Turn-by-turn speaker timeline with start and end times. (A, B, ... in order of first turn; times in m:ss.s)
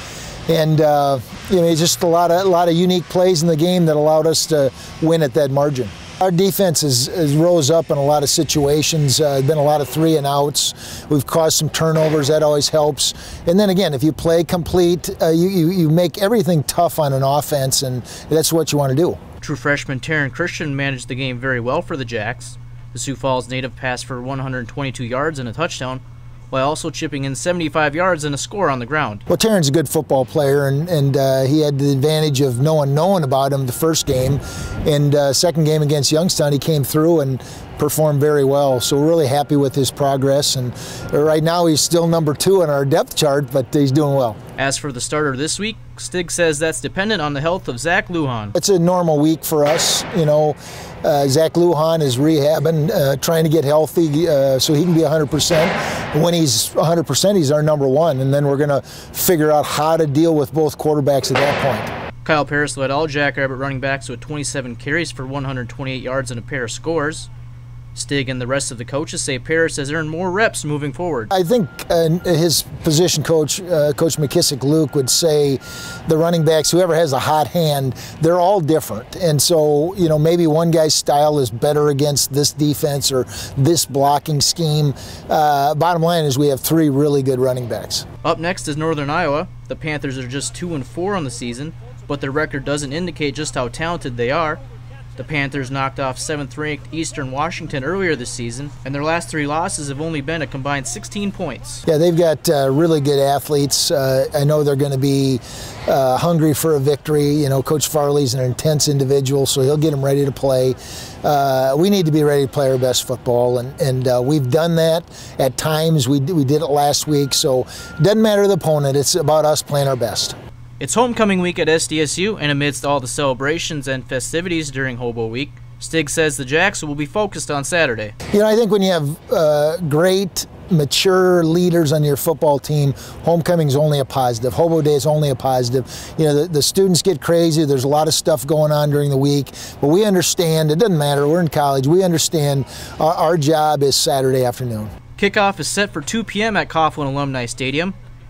0:00.5-0:19.2 A
0:19.4-0:29.2 B
0:29.3-0:44.4 A
0:44.6-0:48.6 B
0:48.6-1:01.9 A
1:02.2-1:07.3 B
1:08.0-1:11.3 B
1:11.3-1:28.1 A
1:28.2-1:34.6 B
1:35.2-1:41.8 B
1:41.9-2:00.4 A
2:00.8-2:08.2 B
2:08.3-2:24.9 A
2:25.2-2:28.0 B